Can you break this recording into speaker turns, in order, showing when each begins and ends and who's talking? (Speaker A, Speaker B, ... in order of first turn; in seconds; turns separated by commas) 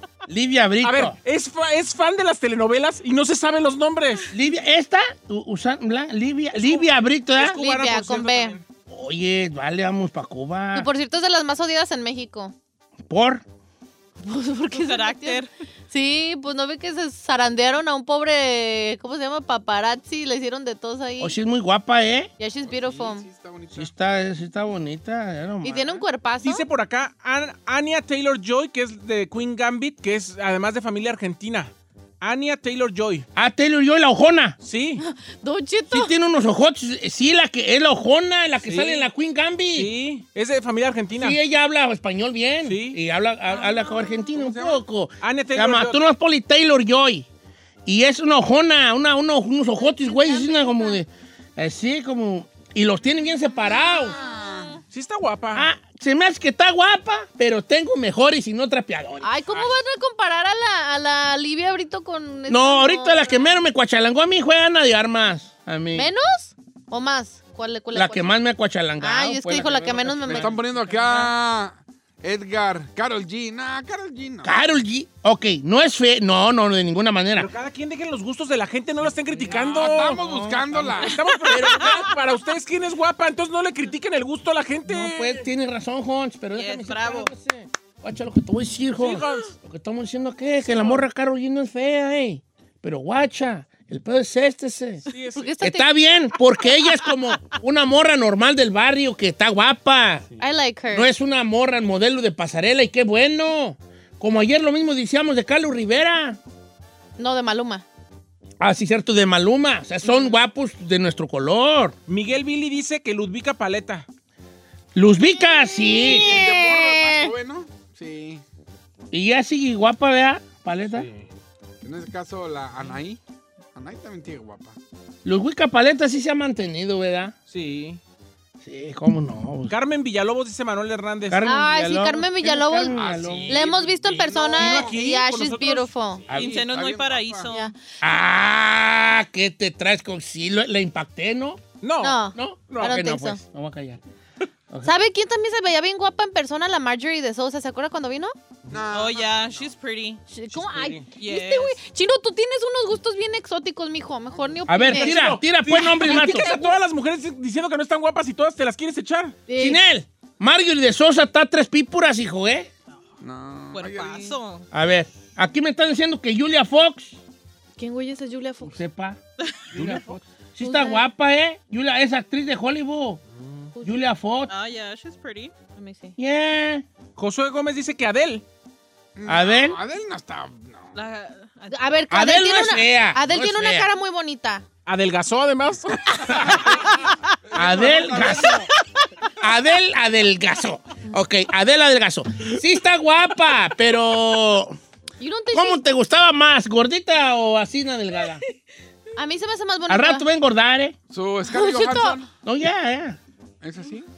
Speaker A: 0.3-1.2, Speaker B: 0.8-4.3, Speaker A: 4.3-7.6, Speaker B: 6.5-8.6, Speaker C: 7.4-8.6, Speaker A: 8.9-10.9, Speaker C: 10.7-12.5, Speaker A: 13.1-13.4, Speaker C: 14.2-21.4, Speaker D: 14.7-15.5, Speaker A: 21.2-22.3, Speaker C: 22.4-23.3, Speaker E: 22.6-23.9, Speaker A: 23.8-25.9, Speaker C: 25.6-26.7, Speaker B: 26.4-33.3, Speaker A: 33.4-34.6, Speaker B: 34.6-35.0, Speaker C: 35.0-36.1, Speaker A: 35.9-39.9, Speaker B: 38.6-39.1, Speaker B: 39.7-41.4, Speaker A: 41.1-47.3, Speaker B: 42.6-43.0, Speaker E: 44.4-44.8, Speaker B: 45.2-46.0, Speaker A: 47.9-54.2, Speaker C: 49.8-51.0, Speaker E: 54.0-54.8, Speaker B: 54.9-55.7, Speaker A: 55.5-59.3, Speaker C: 59.2-63.5, Speaker A: 62.5-66.1, Speaker C: 66.0-68.3, Speaker A: 67.9-70.6, Speaker C: 69.0-70.5, Speaker E: 70.3-74.5, Speaker A: 74.4-77.5, Speaker B: 77.3-80.2, Speaker A: 79.3-82.1, Speaker E: 79.6-81.2, Speaker B: 81.0-85.5, Speaker D: 81.3-82.0, Speaker A: 84.9-95.0, Speaker D: 86.5-87.3, Speaker B: 89.0-89.5, Speaker B: 95.1-95.5, Speaker C: 95.3-95.9, Speaker A: 95.6-100.2, Speaker C: 100.4-101.1, Speaker A: 100.9-106.4, Speaker C: 107.2-107.8, Speaker A: 108.6-111.9, Speaker B: 112.1-114.0, Speaker A: 115.0-116.4, Speaker C: 115.7-117.3, Speaker E: 116.0-118.4, Speaker A: 119.1-121.1, Speaker B: 120.9-121.3, Speaker E: 121.8-123.2, Speaker E: 123.8-124.8, Speaker A: 125.2-127.3, Speaker B: 127.5-128.0, Speaker A: 128.6-129.7, Speaker B: 129.7-131.5, Speaker A: 131.3-133.7, Speaker C: 131.5-136.2, Speaker E: 132.9-135.0, Speaker B: 134.6-136.3, Speaker E: 136.3-137.5, Speaker A: 136.3-136.6, Speaker D: 136.3-137.7, Speaker C: 137.5-137.7, Speaker A: 138.0-141.6, Speaker B: 141.8-143.0, Speaker C: 142.0-143.4, Speaker A: 142.3-144.0, Speaker C: 144.8-148.3, Speaker E: 148.7-149.7, Speaker D: 148.9-150.2, Speaker C: 150.3-155.2, Speaker B: 150.5-151.1, Speaker D: 151.2-151.8, Speaker A: 154.7-156.5, Speaker B: 154.8-159.4, Speaker C: 156.1-156.8, Speaker C: 159.5-159.8, Speaker A: 159.6-162.7, Speaker E: 163.2-164.4, Speaker D: 163.7-164.7, Speaker A: 164.7-167.2, Speaker C: 167.8-168.8, Speaker A: 168.6-169.2, Speaker A: 169.7-173.2, Speaker B: 169.7-170.2, Speaker C: 170.6-171.1, Speaker B: 173.4-173.7, Speaker A: 173.8-174.5, Speaker D: 174.5-175.5, Speaker C: 175.8-176.2, Speaker A: 176.2-176.8, Speaker B: 177.2-178.4, Speaker E: 179.2-180.9, Speaker A: 179.3-179.8, Speaker D: 180.9-182.0, Speaker C: 181.7-184.6, Speaker A: 182.1-183.9, Speaker B: 184.9-186.6, Speaker E: 186.1-188.7, Speaker A: 187.6-188.7, Speaker A: 189.4-194.8, Speaker C: 195.2-195.8, Speaker A: 195.5-198.4, Speaker C: 199.2-200.3, Speaker A: 199.9-201.0, Speaker E: 201.1-202.3, Speaker C: 201.5-202.2, Speaker A: 202.4-203.2, Speaker E: 203.6-204.1